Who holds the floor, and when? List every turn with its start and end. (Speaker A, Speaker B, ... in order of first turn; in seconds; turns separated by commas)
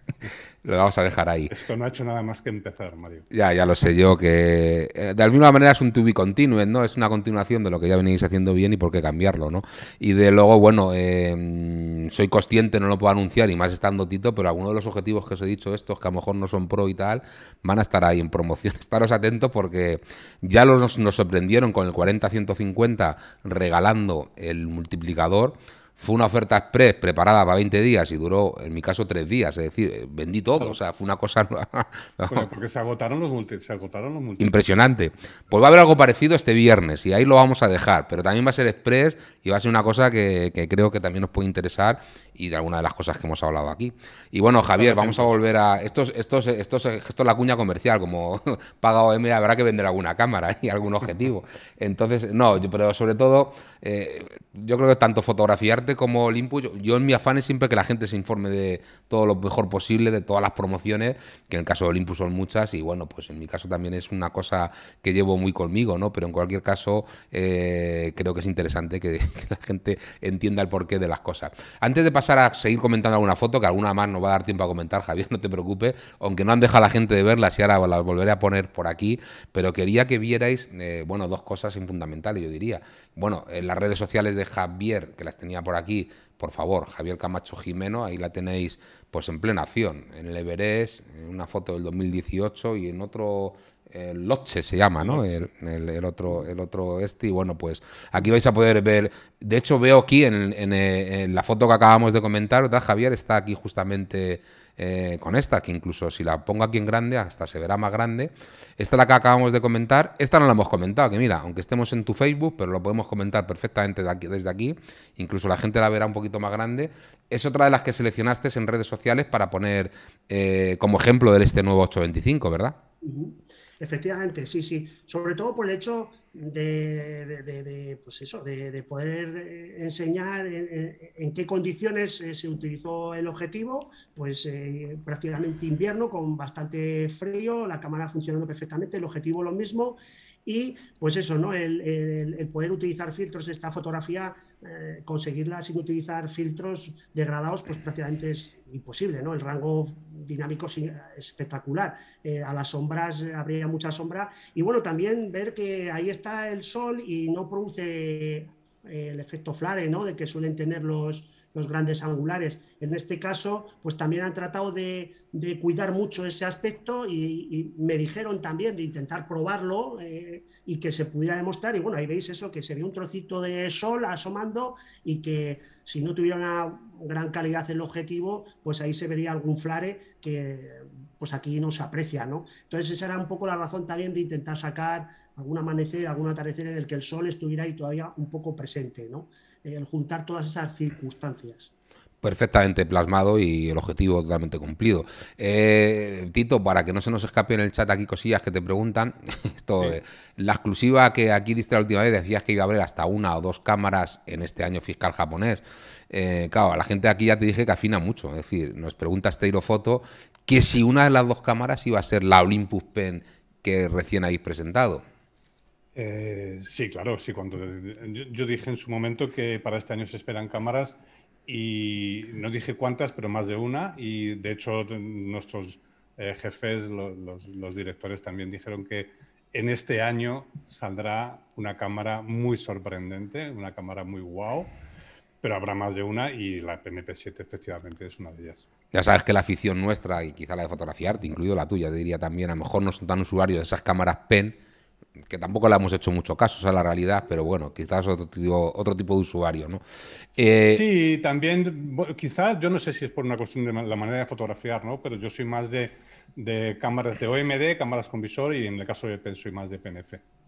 Speaker A: 0.6-1.5, Speaker B: 1.5-3.3, Speaker A: 3.3-32.5, Speaker B: 32.3-34.5, Speaker A: 34.4-122.8, Speaker B: 44.7-45.3, Speaker B: 95.0-95.3, Speaker C: 123.0-191.7, Speaker A: 192.2-215.0, Speaker B: 215.9-234.8, Speaker B: 235.4-238.7, Speaker A: 238.9-244.6, Speaker A: 245.3-249.8, Speaker A: 250.3-250.8, Speaker B: 250.4-260.2